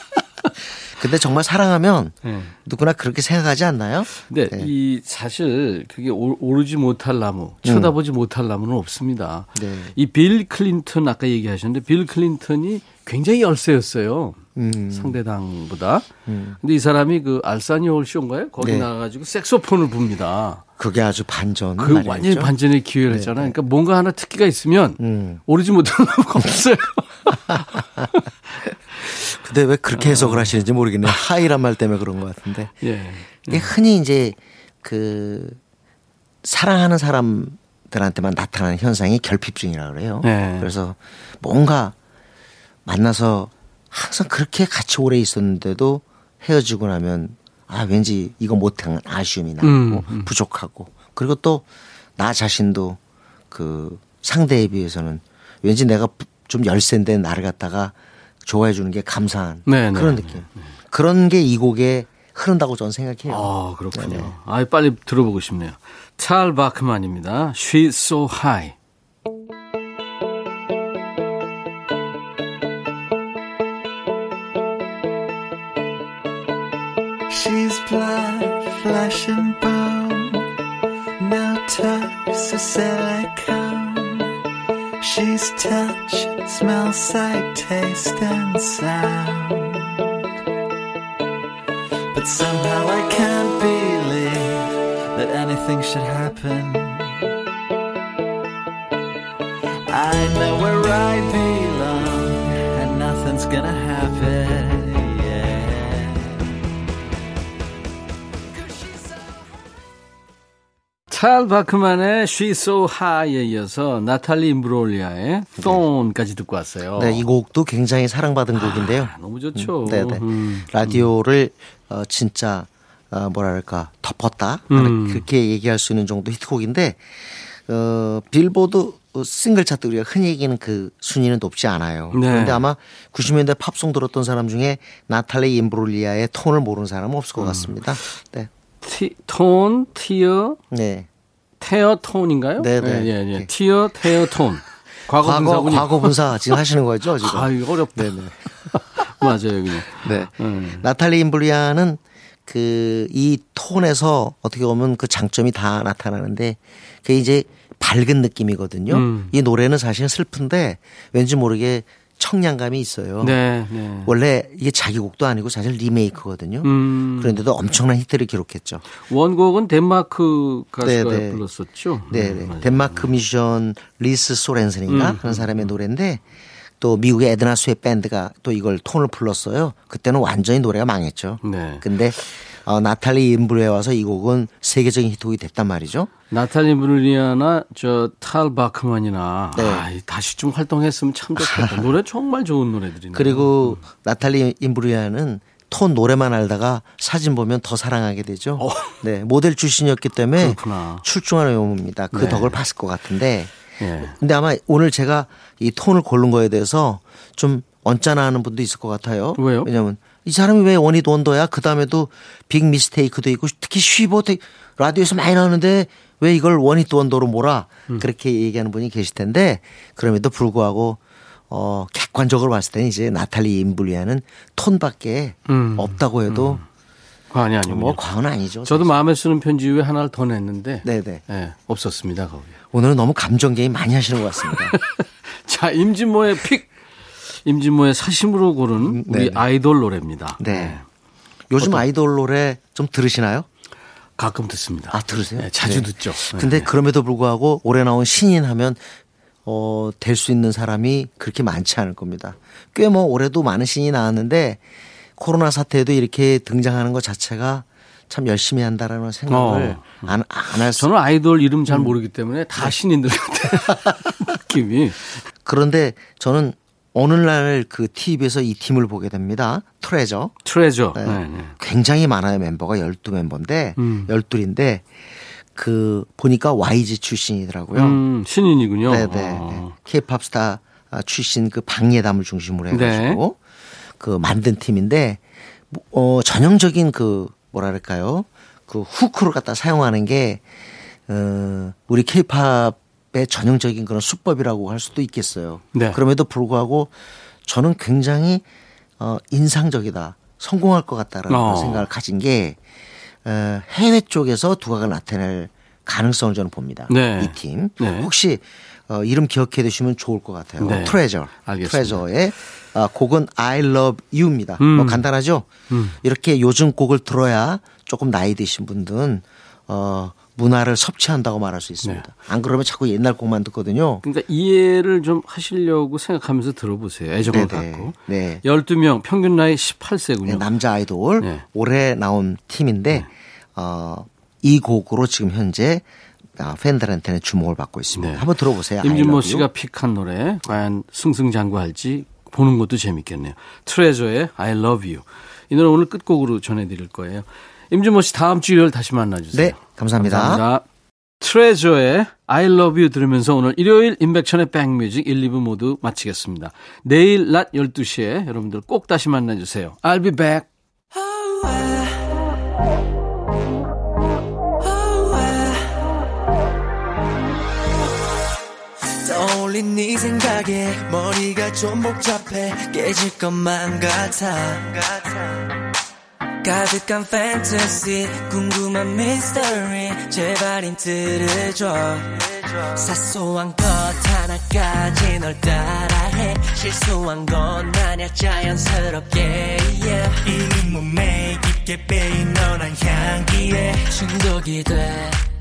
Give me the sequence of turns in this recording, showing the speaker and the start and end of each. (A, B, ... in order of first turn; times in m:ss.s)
0:01.0-0:04.7 A
0:02.2-0:02.6 B
0:04.1-0:14.4 B
0:07.6-0:07.9 A
0:09.6-0:09.9 A
0:14.6-0:15.2 A
0:14.9-0:16.1 B
0:16.3-0:16.6 A
0:16.6-0:20.6 B
0:18.6-0:18.9 A
0:20.8-0:22.5 A
0:21.8-0:28.2 B
0:23.1-0:23.6 A
0:25.0-0:25.4 A
0:29.0-0:32.7 A
0:30.0-0:30.5 B
0:32.8-0:33.7 B
0:33.5-0:35.6 A
0:36.4-0:42.0 A
0:40.2-0:40.7 B
0:42.8-0:51.7 A
0:49.6-0:50.3 B
0:52.2-0:53.0 A
0:53.5-1:04.3 A
0:59.7-1:00.7 B
1:03.3-1:08.8 B
1:17.3-1:20.5 C
1:21.2-1:24.3 C
1:25.0-1:30.0 C
1:32.1-1:37.2 C
1:39.9-1:46.3 C
1:51.1-1:57.2 B
1:57.0-2:18.5 A
1:58.5-2:01.1 B
2:04.7-2:05.2 B
2:12.1-2:12.6 B
2:17.4-2:18.1 B
2:18.8-2:20.6 B
2:20.7-2:21.1 A
2:21.6-2:26.2 B
2:22.6-2:23.5 A
2:25.2-2:28.4 A
2:27.2-2:30.8 B
2:29.9-2:43.4 A
2:38.9-2:39.3 B
2:43.2-2:44.1 B
2:44.0-2:48.8 A
2:46.6-2:47.4 B
2:49.0-2:53.1 B
2:50.8-2:51.4 A
2:52.1-2:56.2 A
2:54.9-2:55.6 B
2:56.8-3:06.1 A
3:01.4-3:01.8 B
3:06.3-3:13.8 B
3:09.6-3:09.8 A
3:11.4-3:11.9 A
3:13.1-3:46.6 A
3:18.6-3:19.0 B
3:20.4-3:21.0 B
3:22.1-3:22.6 B
3:23.8-3:24.1 B
3:29.4-3:29.7 B
3:45.5-3:46.6 B
3:47.3-3:48.0 B
3:47.6-3:49.0 A
3:48.6-3:52.6 B
3:50.8-3:51.2 A
3:52.7-3:54.8 A
3:54.8-3:56.7 B
3:57.4-4:00.8 B
3:58.8-3:59.4 A
4:00.4-4:00.8 A
4:01.5-4:03.5 A
4:01.6-4:01.8 B
4:04.2-4:06.7 B
4:04.9-4:08.9 A
4:09.4-4:14.6 A
4:15.2-4:20.9 A
4:19.3-4:20.1 B
4:20.7-4:25.2 B
4:21.7-4:21.9 A
4:25.4-4:30.3 A
4:30.4-4:31.5 B
4:31.0-4:34.9 A
4:33.8-4:34.1 B
4:35.5-4:38.0 A
4:37.7-4:39.8 B
4:38.9-4:43.4 A
4:42.7-4:43.2 B
4:44.0-4:50.4 A
4:51.1-4:56.9 A
4:55.7-4:56.0 B
4:57.4-4:58.4 A
4:59.0-5:02.6 A
5:01.3-5:01.9 B
5:03.2-5:15.5 A
5:06.9-5:08.1 B
5:10.6-5:12.0 B
5:14.6-5:15.0 B
5:15.7-5:16.0 B
5:16.0-5:24.0 A
5:21.8-5:22.1 B
5:24.0-5:30.5 B
5:27.2-5:28.4 A
5:30.2-5:35.8 A
5:31.2-5:31.4 B
5:36.4-5:39.5 A
5:38.0-5:38.3 B
5:38.8-5:50.6 B
5:49.3-5:50.4 A
5:51.2-6:00.5 B
6:00.9-6:02.3 D
6:04.6-6:05.9 D
6:09.0-6:15.4 D
6:16.4-6:35.2 D